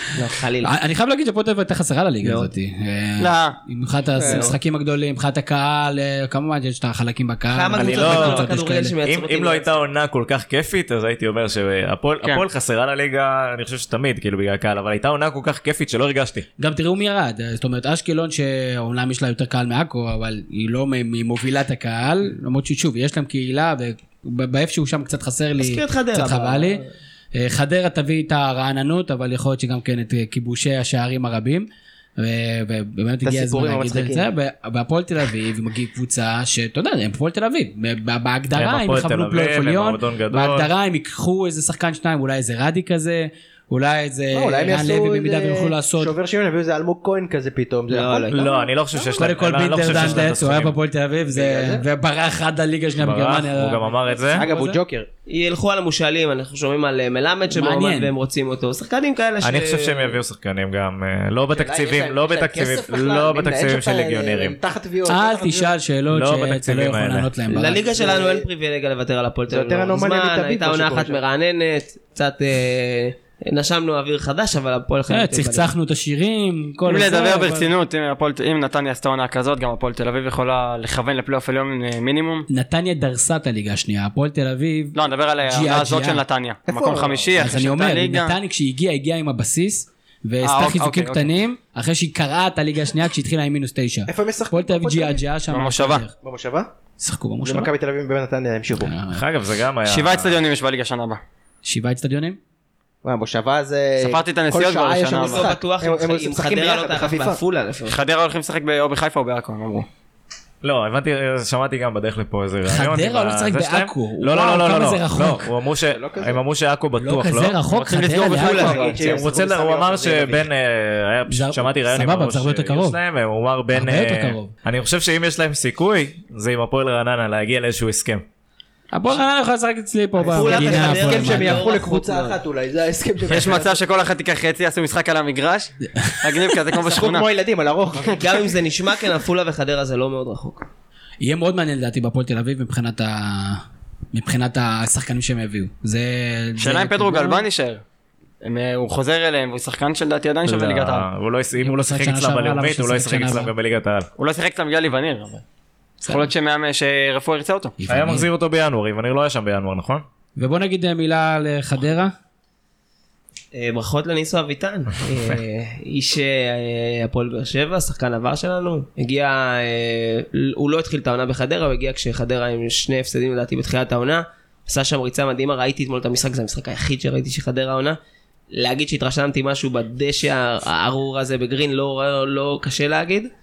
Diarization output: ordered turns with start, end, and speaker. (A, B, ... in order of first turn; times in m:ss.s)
0:00.1-0:00.7 A
0:00.6-0:08.9 B
0:02.2-0:02.5 A
0:03.2-0:03.6 C
0:04.2-0:04.5 D
0:07.5-0:09.7 A
0:07.8-0:08.2 C
0:09.0-0:16.4 E
0:16.6-0:26.8 B
0:25.6-0:26.9 A
0:27.3-0:31.7 B
0:32.2-0:46.1 B
0:33.2-0:34.3 D
0:38.6-0:40.7 E
0:44.3-0:48.6 D
0:47.9-0:49.2 A
0:48.3-0:50.8 E
0:49.2-0:54.8 B
0:51.3-0:51.8 D
0:53.0-0:54.5 E
0:54.3-0:55.1 D
0:55.3-1:00.2 A
0:57.5-0:58.1 B
0:59.4-1:04.6 E
1:01.5-1:05.7 D
1:05.1-1:07.8 B
1:06.1-1:07.3 E
1:07.5-1:15.7 A
1:07.6-1:08.5 D
1:09.5-1:11.2 D
1:15.1-1:17.7 B
1:16.8-1:22.4 C
1:22.5-1:26.2 B
1:24.9-1:28.4 C
1:26.7-1:27.6 D
1:27.3-1:36.1 B
1:30.4-1:31.3 C
1:34.1-1:35.2 D
1:35.5-1:36.0 C
1:36.2-1:36.7 D
1:37.0-1:37.7 B
1:37.4-1:39.0 D
1:38.8-1:39.2 B
1:39.1-1:40.4 E
1:39.8-1:41.2 C
1:41.6-1:42.4 B
1:43.0-1:47.4 D
1:44.0-1:45.5 C
1:45.2-1:48.0 A
1:47.9-1:49.9 C
1:50.6-1:57.6 E
1:52.6-1:55.5 B
1:55.8-1:56.4 D
1:57.0-1:58.8 B
1:57.7-1:59.0 C
1:58.1-2:00.5 D
1:58.6-2:08.2 E
2:01.3-2:03.0 B
2:03.7-2:04.5 B
2:08.9-2:11.7 B
2:10.2-2:13.8 D
2:10.2-2:12.4 A
2:13.3-2:17.3 C
2:15.9-2:16.4 B
2:16.8-2:18.6 D
2:18.0-2:20.7 A
2:21.2-2:27.4 B
2:26.6-2:27.8 C
2:28.4-2:31.1 C
2:30.4-2:34.1 E
2:31.6-2:33.5 B
2:34.2-2:35.4 C
2:36.0-2:37.8 C
2:37.8-2:38.3 B
2:37.9-2:40.0 E
2:40.4-2:42.1 B
2:43.5-2:58.0 A
2:58.5-3:03.3 A